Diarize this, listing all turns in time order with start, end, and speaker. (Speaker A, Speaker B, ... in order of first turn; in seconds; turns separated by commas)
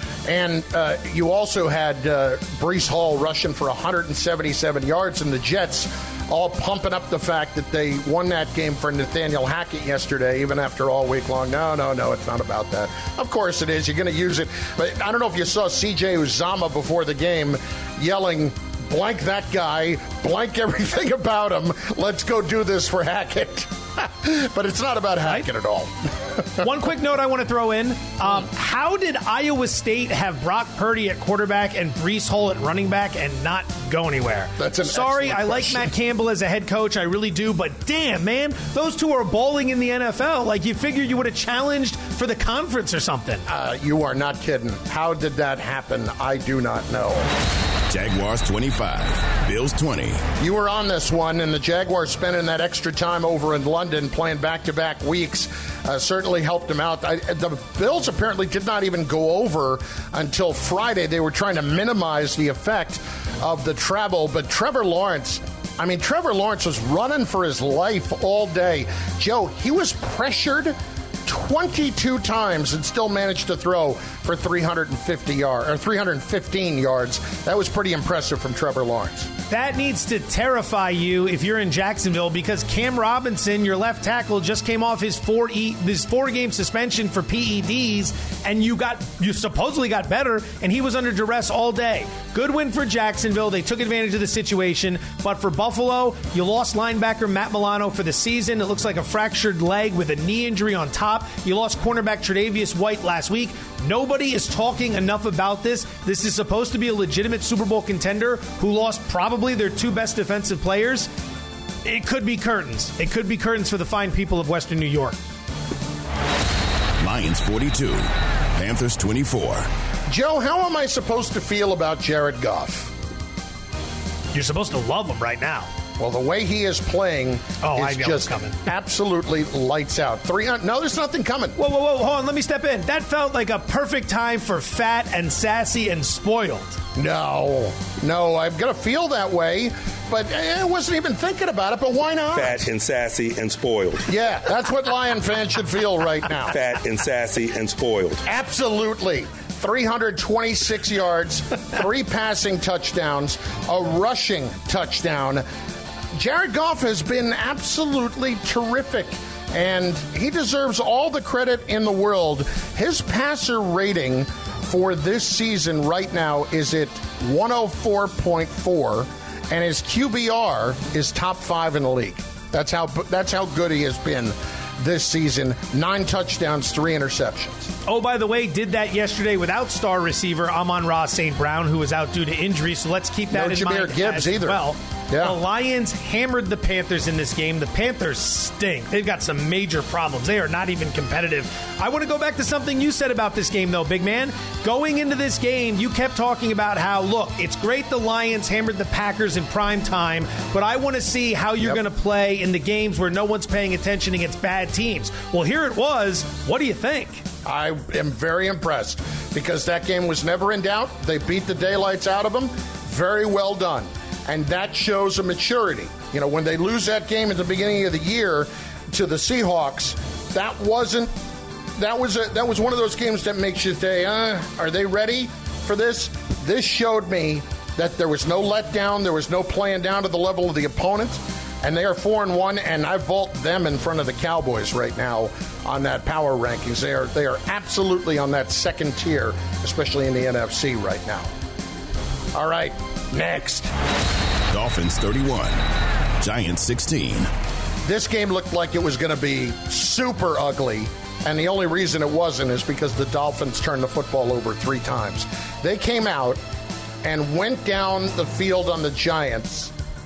Speaker A: 0.2-26.6, Speaker B: 26.6-43.4, Speaker A: 34.6-35.9, Speaker A: 43.5-47.3, Speaker C: 47.9-50.2, Speaker A: 50.4-79.3, Speaker B: 79.5-111.1, Speaker B: 111.8-115.2, Speaker C: 117.0-119.7, Speaker A: 120.1-122.9, Speaker B: 124.3-125.7, Speaker A: 126.0-131.6, Speaker B: 127.6-128.6, Speaker B: 131.6-136.8, Speaker A: 136.9-142.7, Speaker D: 142.3-144.0, Speaker A: 144.1-146.5, Speaker D: 146.5-148.2, Speaker A: 148.2-155.4, Speaker A: 156.1-177.7, Speaker B: 177.8-207.2, Speaker A: 183.3-185.4, Speaker A: 207.4-221.1, Speaker A: 221.8-241.3, Speaker A: 242.3-243.7, Speaker C: 244.5-245.6, Speaker C: 246.2-247.3, Speaker A: 247.8-256.4, Speaker A: 257.0-259.7